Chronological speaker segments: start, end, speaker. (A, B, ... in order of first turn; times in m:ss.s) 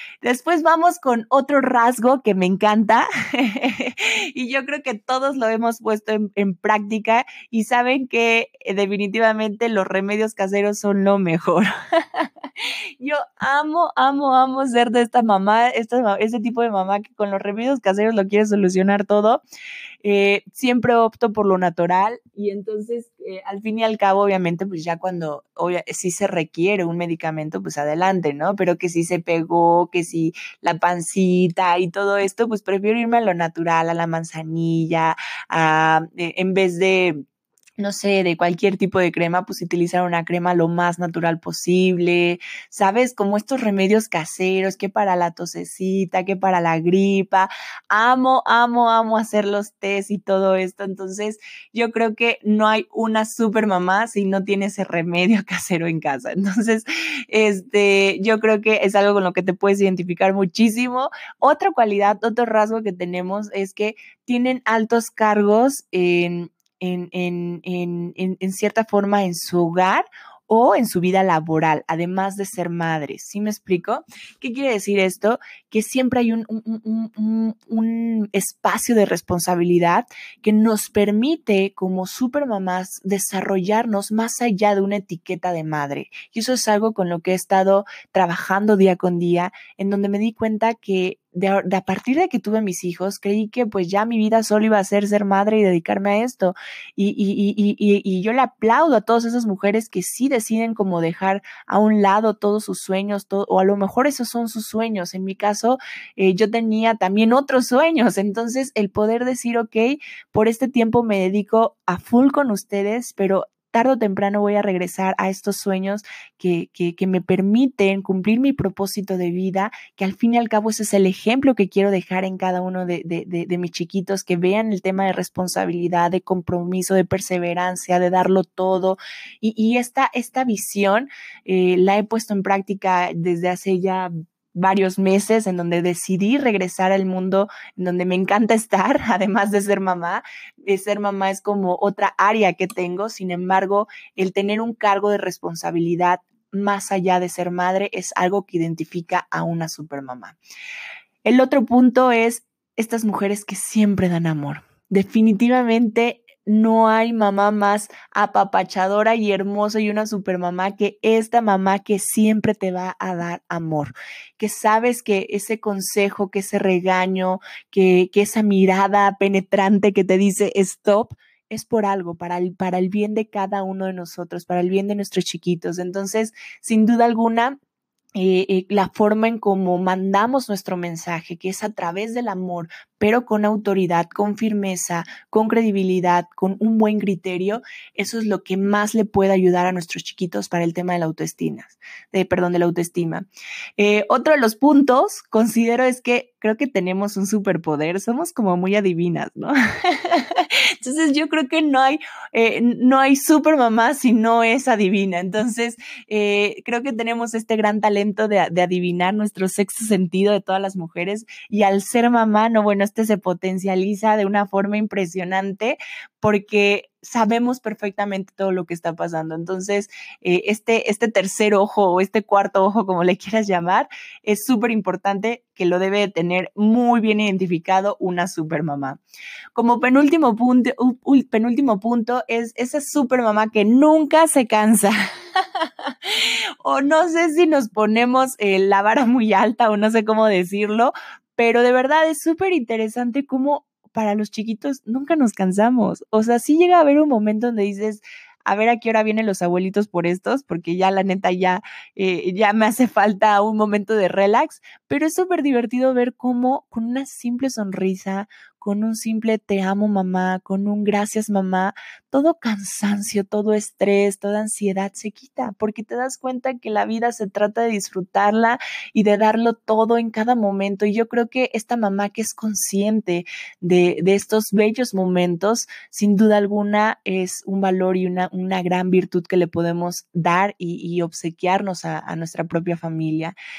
0:00.2-0:19.4 A
0:20.0-0:37.2 A
0:37.8-2:30.4 A
2:31.2-2:57.6 A
2:58.2-3:13.3 A
3:13.8-3:49.0 A
3:49.6-4:43.4 A